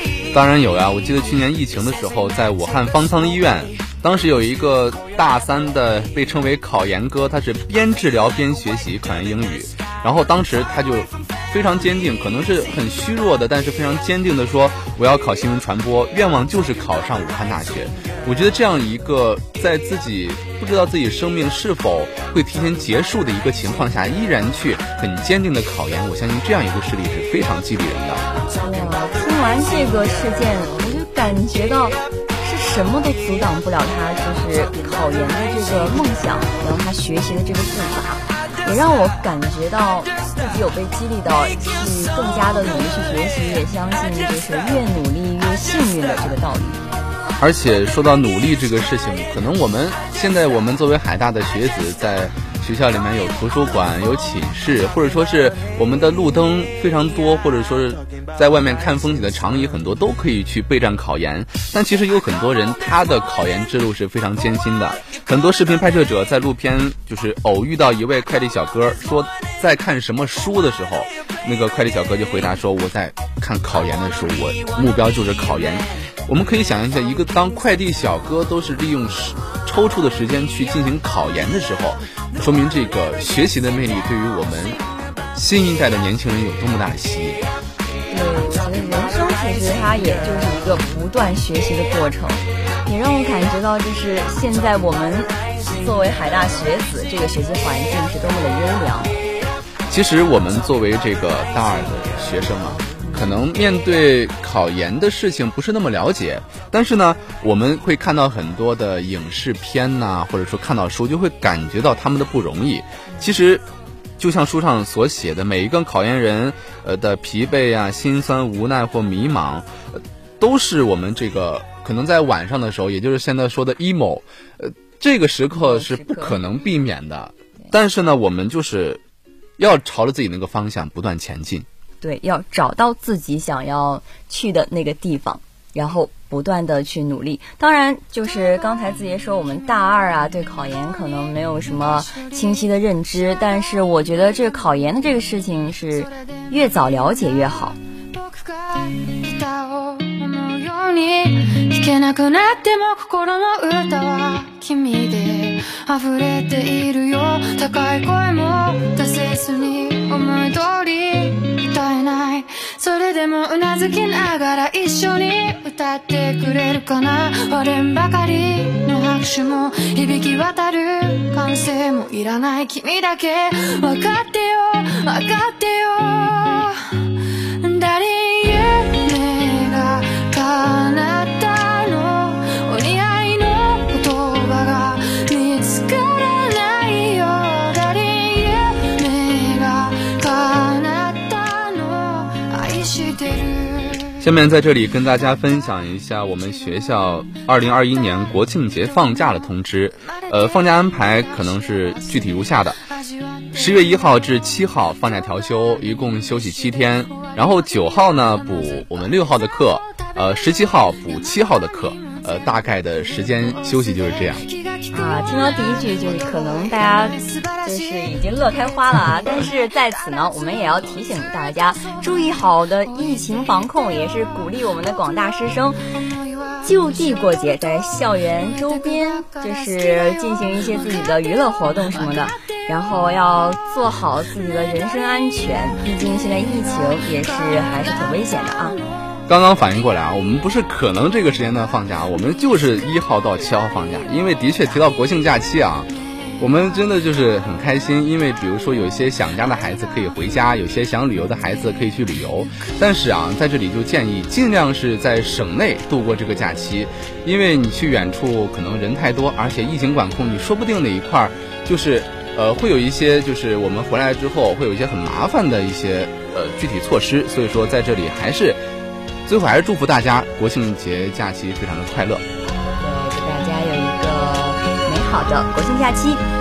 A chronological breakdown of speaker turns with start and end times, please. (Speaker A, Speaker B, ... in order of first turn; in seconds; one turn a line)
Speaker A: 0.3-28.2
Speaker B: 28.6-46.8
Speaker A: 47.4-87.5
Speaker B: 88.1-99.1
Speaker A: 99.9-113.6
Speaker B: 103.0-103.3
Speaker A: 114.2-129.0
Speaker B: 125.5-126.4
Speaker A: 129.6-131.7
Speaker B: 132.0-147.8
Speaker C: 148.2-177.0
Speaker C: 177.6-194.2
Speaker A: 194.2-202.8
Speaker C: 201.0-202.8
Speaker A: 203.5-214.4
Speaker C: 206.4-209.0
Speaker C: 212.0-212.2
Speaker C: 213.2-218.1
Speaker B: 214.9-225.8
Speaker C: 226.1-227.0
Speaker B: 226.6-238.8
Speaker A: 239.3-268.6
Speaker A: 269.3-272.2
Speaker B: 272.8-276.2